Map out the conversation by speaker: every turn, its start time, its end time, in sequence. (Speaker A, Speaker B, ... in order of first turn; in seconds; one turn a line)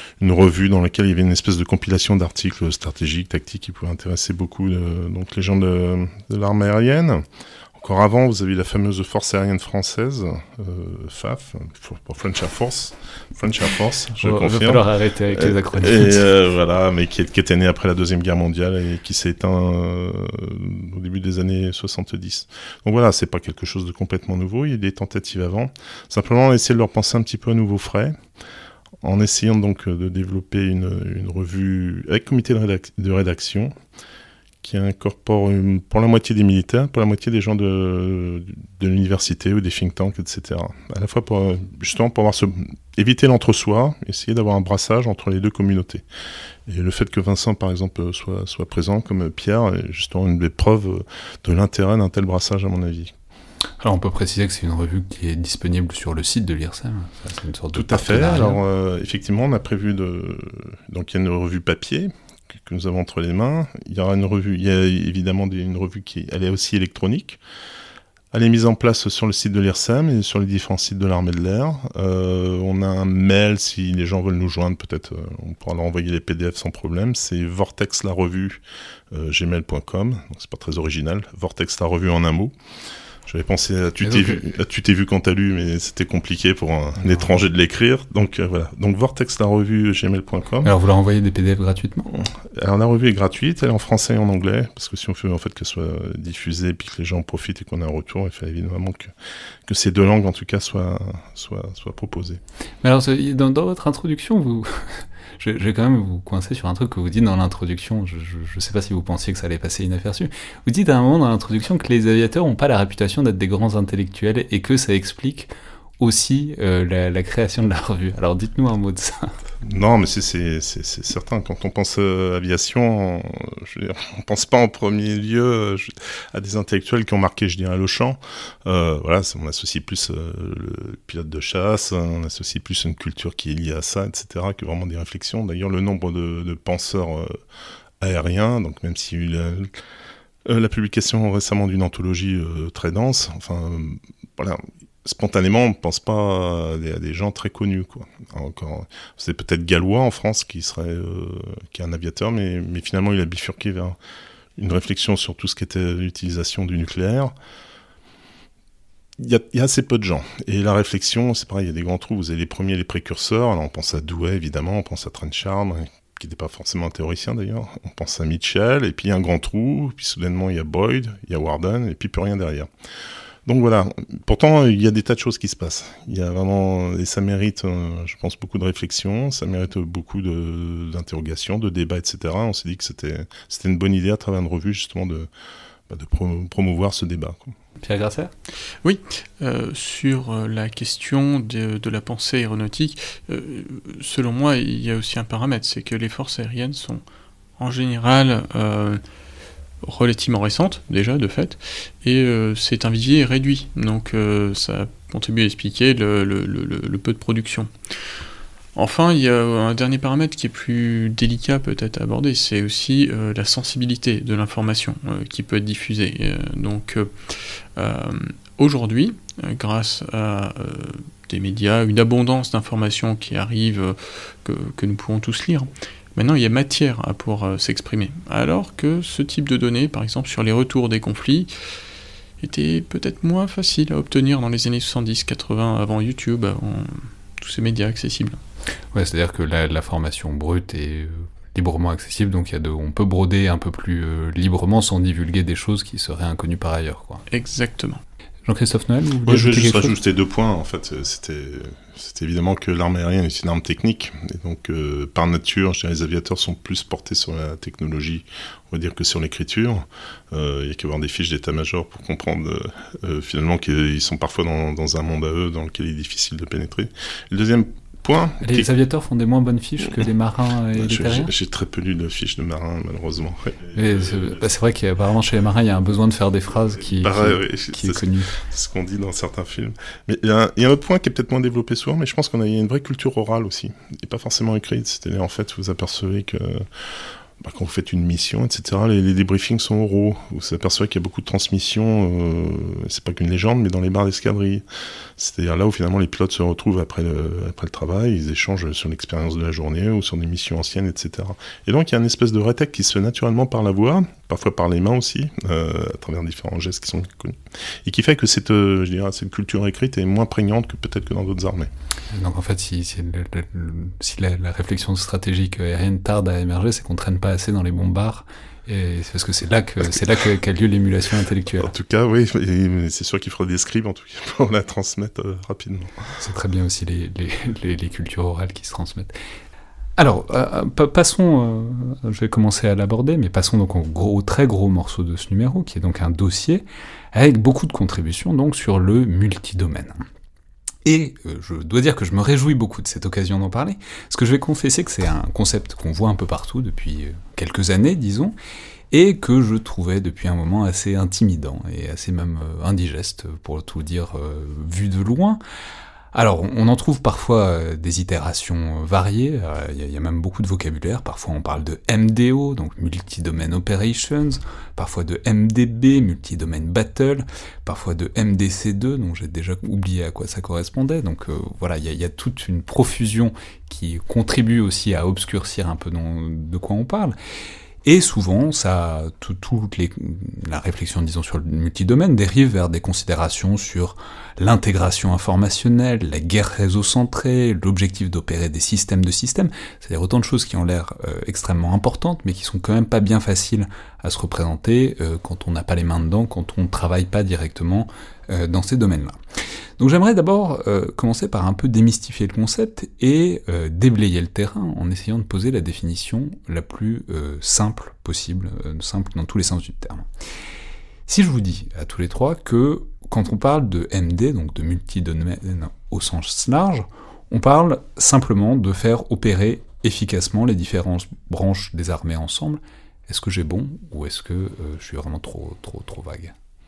Speaker A: 0.2-7.2
Speaker A: 7.8-28.2
Speaker B: 14.2-16.3
Speaker A: 29.0-33.7
Speaker A: 34.6-46.0
Speaker A: 46.7-53.1
Speaker B: 53.8-58.6
Speaker A: 57.7-67.4
Speaker A: 68.3-82.5
Speaker A: 83.3-90.7
Speaker B: 84.0-84.4
Speaker B: 90.6-92.1
Speaker A: 92.1-99.1
Speaker A: 99.7-102.4
Speaker B: 102.8-104.8
Speaker B: 105.4-119.3
Speaker A: 119.6-137.4
Speaker A: 138.0-139.7
Speaker A: 140.5-154.0
Speaker A: 154.6-157.3
Speaker A: 159.2-172.7
Speaker A: 173.5-185.3
Speaker A: 185.9-187.6
Speaker B: 187.8-188.3
Speaker C: 188.8-197.0
Speaker C: 197.6-199.0
Speaker C: 199.8-207.7
Speaker C: 208.8-231.5
Speaker C: 232.4-238.4
Speaker B: 238.9-247.2
Speaker C: 247.3-248.0
Speaker B: 248.5-249.9
Speaker A: 249.2-268.7
Speaker B: 268.4-271.3
Speaker A: 270.8-274.5
Speaker B: 273.7-278.4
Speaker A: 276.8-286.7
Speaker A: 287.4-294.6
Speaker A: 295.2-311.7
Speaker B: 312.1-321.7
Speaker A: 321.6-326.0
Speaker B: 326.2-329.1
Speaker B: 330.0-340.1
Speaker B: 340.9-348.4
Speaker B: 348.9-355.4
Speaker B: 356.1-377.1
Speaker B: 377.8-399.2
Speaker B: 399.8-410.1
Speaker B: 411.1-426.3